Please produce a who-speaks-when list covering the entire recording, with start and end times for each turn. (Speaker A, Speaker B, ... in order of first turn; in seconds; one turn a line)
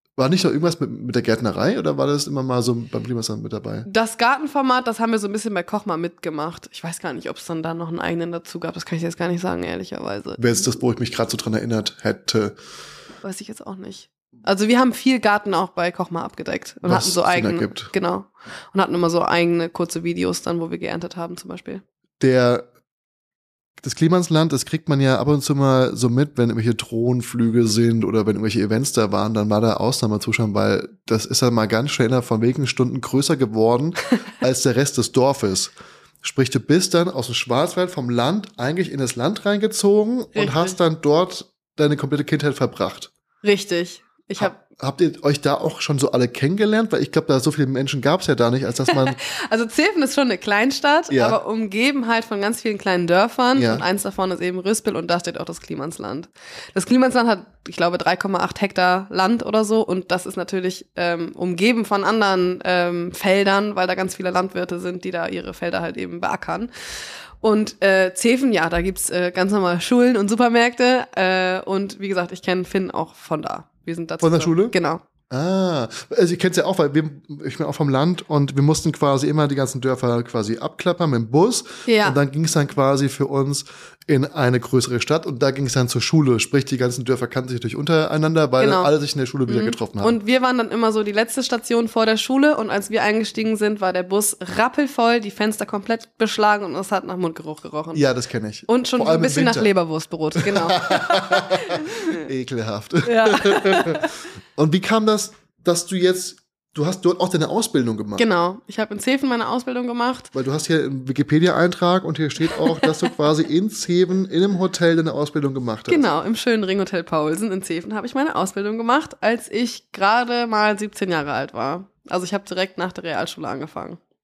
Speaker A: 0.2-3.9
Speaker B: 3.9-10.7
Speaker A: 10.4-12.6
Speaker B: 13.2-21.8
Speaker A: 16.9-17.9
Speaker A: 22.2-22.7
Speaker A: 23.8-43.1
Speaker B: 40.4-40.8
Speaker B: 43.4-44.6
Speaker A: 44.4-49.2
Speaker B: 48.9-66.7
Speaker A: 51.1-51.4
Speaker A: 53.5-53.9
Speaker B: 67.4-75.0
Speaker A: 74.2-74.8
Speaker A: 75.3-90.2
Speaker B: 81.9-82.2
Speaker B: 88.6-88.9
Speaker B: 89.5-98.0
Speaker A: 97.9-99.7
Speaker B: 98.7-102.2
Speaker A: 100.4-108.3
Speaker B: 103.0-104.1
Speaker B: 108.2-110.3
Speaker A: 110.3-116.1
Speaker B: 112.6-112.9
Speaker B: 115.9-124.0